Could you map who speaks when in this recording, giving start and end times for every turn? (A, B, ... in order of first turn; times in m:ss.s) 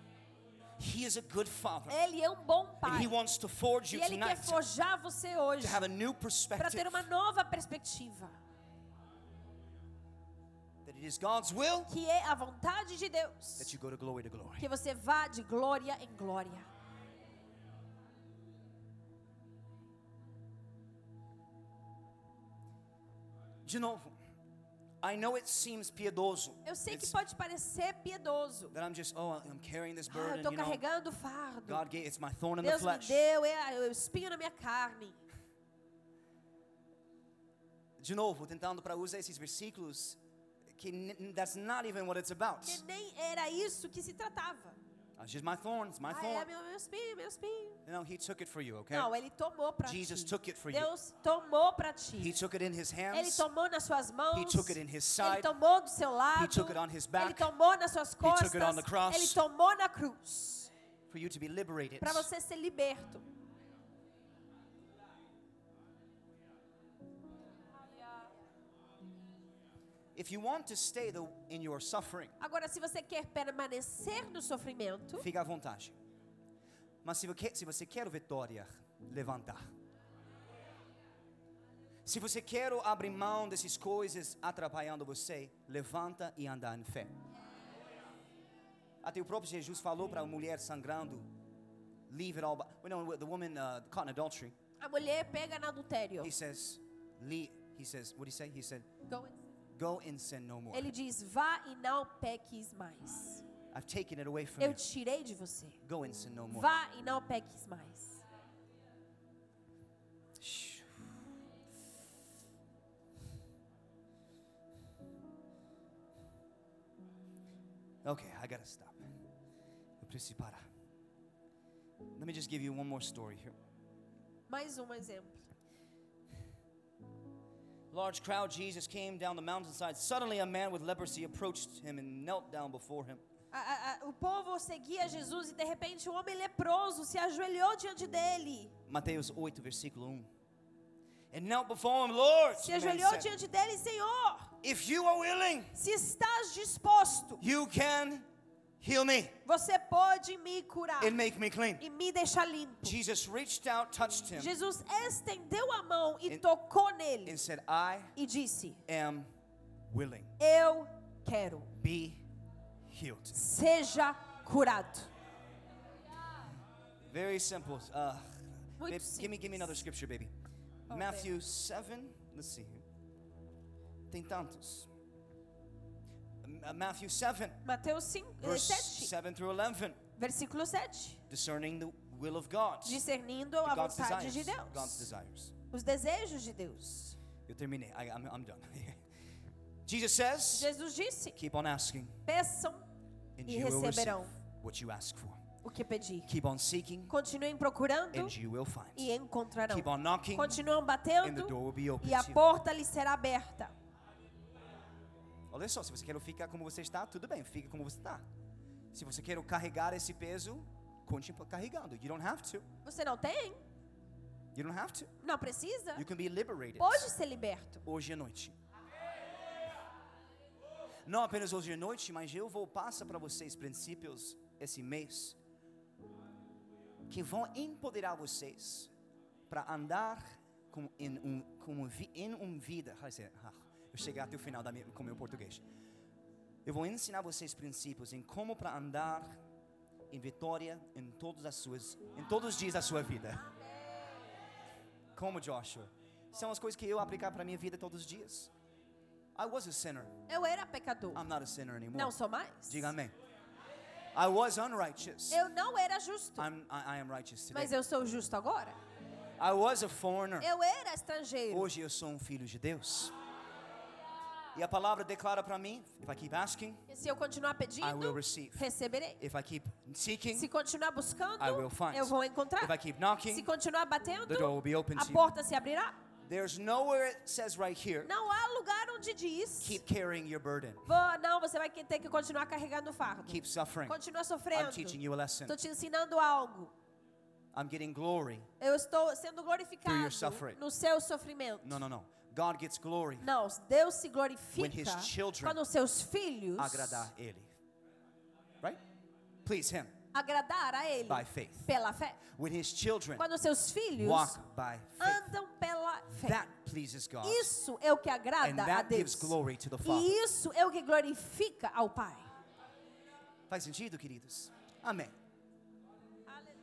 0:00.8-0:02.0 A
0:01.9-0:03.2 B
0:02.8-0:04.6 A
0:03.9-0:05.8 B
0:05.6-0:07.1 A
0:06.6-0:08.3 B
0:10.8-0:11.9 A
0:11.9-0:13.7 B
0:13.6-0:14.7 A
0:14.6-0:16.7 B
0:23.6-0:24.1 A
0:25.0-0:27.2 A
0:26.6-0:28.7 B
0:28.7-0:30.8 A
0:30.1-0:31.8 B
0:31.6-0:33.2 A
0:32.6-0:35.2 B
0:38.0-0:40.2 A
0:40.7-0:42.8 A
0:42.6-0:44.8 B
0:45.2-0:46.5 A
0:46.1-0:47.8 B
0:47.8-0:49.1 A
0:48.9-0:52.3 B
0:49.8-0:50.9 A
0:52.2-0:53.4 A
0:53.1-1:00.7 B
0:54.3-0:55.5 A
0:56.3-0:57.5 A
0:58.2-0:59.4 A
1:01.1-1:02.3 A
1:02.0-1:03.3 B
1:10.1-1:12.4 A
1:12.4-1:15.2 B
1:15.2-1:16.0 A
1:17.0-1:19.6 A
1:22.0-1:27.1 A
1:29.0-1:31.3 A
1:32.1-1:34.5 A
1:34.8-1:36.3 B
1:36.2-1:38.8 A
1:39.1-1:39.4 B
1:39.8-1:40.9 A
1:40.7-1:43.4 B
1:43.7-1:44.8 A
1:44.6-1:45.8 B
1:45.8-1:46.7 A
1:46.5-1:48.2 B
1:50.4-1:51.1 A
1:58.0-1:59.1 A
2:00.0-2:00.6 A
2:02.1-2:03.6 A
2:04.5-2:05.5 B
2:07.9-2:13.2 A
2:13.5-2:18.7 B
2:18.9-2:20.3 A
2:21.3-2:23.3 A
2:22.5-2:24.5 B
2:24.6-2:25.8 A
2:25.7-2:27.4 B
2:27.4-2:28.2 A
2:28.8-2:29.4 A
2:29.4-2:31.2 B
2:31.0-2:31.8 A
2:31.8-2:33.0 B
2:32.8-2:34.5 A
2:34.3-2:37.4 B
2:37.2-2:38.1 A
2:38.2-2:38.8 B
2:38.8-2:39.3 A
2:39.9-2:40.4 A
2:40.4-2:41.7 B
2:41.8-2:42.2 A
2:42.9-2:43.4 A
2:43.3-2:45.1 B
2:47.1-2:50.3 A
2:48.8-2:49.8 B
2:50.9-2:52.8 A
2:50.9-2:51.3 B
2:54.1-2:54.9 A
2:56.4-2:57.6 A
2:57.6-2:59.1 B
2:58.4-3:00.0 A
3:00.2-3:01.2 B
3:01.3-3:03.0 A
3:02.8-3:05.1 B
3:03.6-3:05.5 A
3:05.7-3:07.2 B
3:07.5-3:09.0 A
3:09.8-3:10.7 A
3:10.5-3:11.4 B
3:11.3-3:12.2 A
3:12.3-3:12.8 B
3:13.4-3:15.4 A
3:13.4-3:14.3 B
3:15.6-3:16.3 B
3:16.2-3:17.1 A
3:17.1-3:18.3 B
3:18.1-3:19.1 A
3:19.0-3:23.7 B
3:19.7-3:20.6 A
3:21.2-3:22.4 A
3:25.5-3:28.2 A
3:28.9-3:32.7 A
3:32.8-3:33.6 B
3:34.5-3:35.1 A
3:35.2-3:36.0 B
3:35.9-3:37.1 A
3:36.8-3:37.8 B
3:37.8-3:38.5 A
3:41.0-3:45.4 A
3:47.1-3:48.9 A
3:49.5-3:55.6 A
3:56.6-3:59.4 A
4:00.1-4:03.5 A
4:05.2-4:08.5 A
4:09.4-4:10.2 A
4:10.3-4:11.3 B
4:11.1-4:12.1 A
4:11.9-4:12.9 B
4:12.7-4:13.1 A
4:14.1-4:15.4 A
4:15.3-4:16.5 B
4:16.4-4:17.7 A
4:17.5-4:18.8 B
4:19.4-4:20.5 A
4:20.4-4:21.7 B
4:21.5-4:23.1 A
4:24.5-4:26.8 A
4:26.9-4:29.2 B
4:27.8-4:28.7 A
4:29.2-4:30.5 A
4:30.3-4:32.7 B
4:31.4-4:33.5 A
4:33.2-4:36.0 B
4:34.3-4:35.2 A
4:36.2-4:38.1 A
4:38.0-4:39.8 B
4:39.6-4:40.9 A
4:40.8-4:46.7 B
4:43.2-4:44.0 A
4:44.5-4:45.6 A
4:47.5-4:48.5 A
4:48.6-4:51.8 B
4:49.8-4:50.6 A
4:51.6-4:53.3 A
4:53.2-4:57.1 B
4:54.6-4:55.6 A
4:56.6-4:57.5 A
4:59.4-5:00.0 A
5:00.1-5:02.2 B
5:01.0-5:01.7 A
5:02.2-5:03.2 A
5:03.2-5:04.4 B
5:04.0-5:05.3 A
5:05.0-5:06.4 B
5:06.1-5:07.5 A
5:07.2-5:12.3 B
5:08.4-5:10.1 A
5:13.5-5:15.1 A